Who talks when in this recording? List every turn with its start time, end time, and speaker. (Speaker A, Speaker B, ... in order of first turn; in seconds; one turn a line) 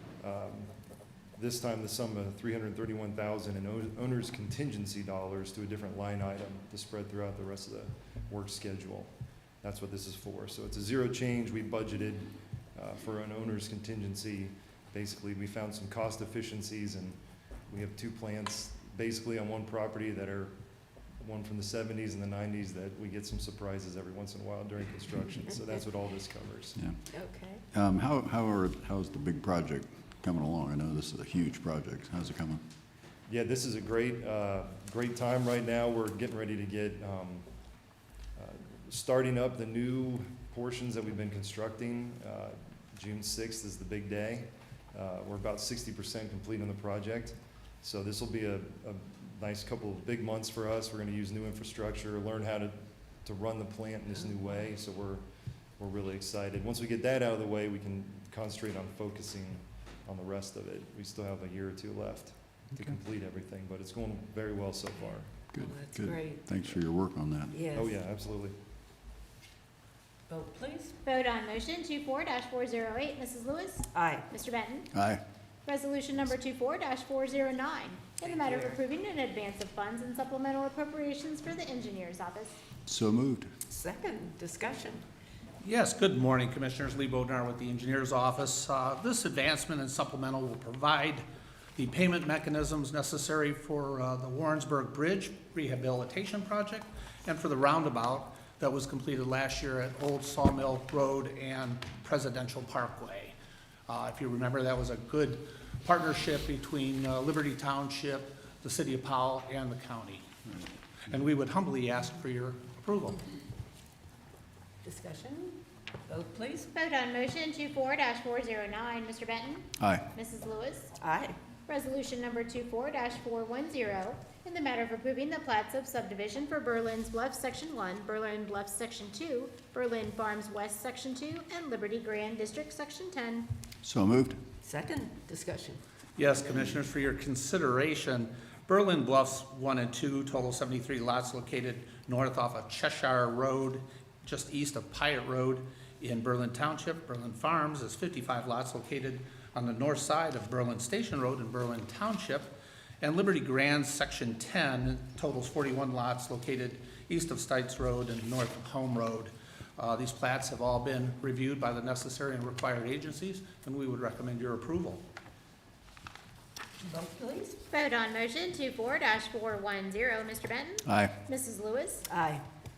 Speaker A: 0.2-0.7
Speaker A: 1.4-9.1
Speaker A: 9.6-17.2
Speaker A: 17.7-20.5
Speaker A: 21.2-26.8
Speaker B: 27.1-27.6
Speaker C: 27.7-32.6
Speaker A: 33.3-37.5
Speaker A: 38.4-55.2
Speaker A: 55.8-65.4
Speaker C: 65.5-67.6
Speaker B: 65.6-66.4
Speaker B: 67.5-67.9
Speaker A: 67.7-68.6
Speaker B: 70.3-71.0
Speaker D: 71.0-74.9
Speaker B: 73.9-74.3
Speaker C: 74.9-75.2
Speaker D: 75.7-82.6
Speaker B: 78.4-78.8
Speaker C: 82.9-83.5
Speaker B: 83.7-85.0
Speaker E: 85.6-91.2
Speaker E: 91.8-103.4
Speaker E: 103.9-110.3
Speaker E: 111.0-113.2
Speaker B: 114.8-116.7
Speaker D: 116.7-120.9
Speaker C: 119.8-120.0
Speaker B: 121.0-121.4
Speaker D: 121.7-133.5
Speaker C: 133.8-134.4
Speaker B: 134.6-135.8
Speaker E: 136.2-165.1
Speaker B: 166.8-167.6
Speaker D: 167.7-172.1
Speaker C: 170.9-171.1
Speaker B: 172.1-172.4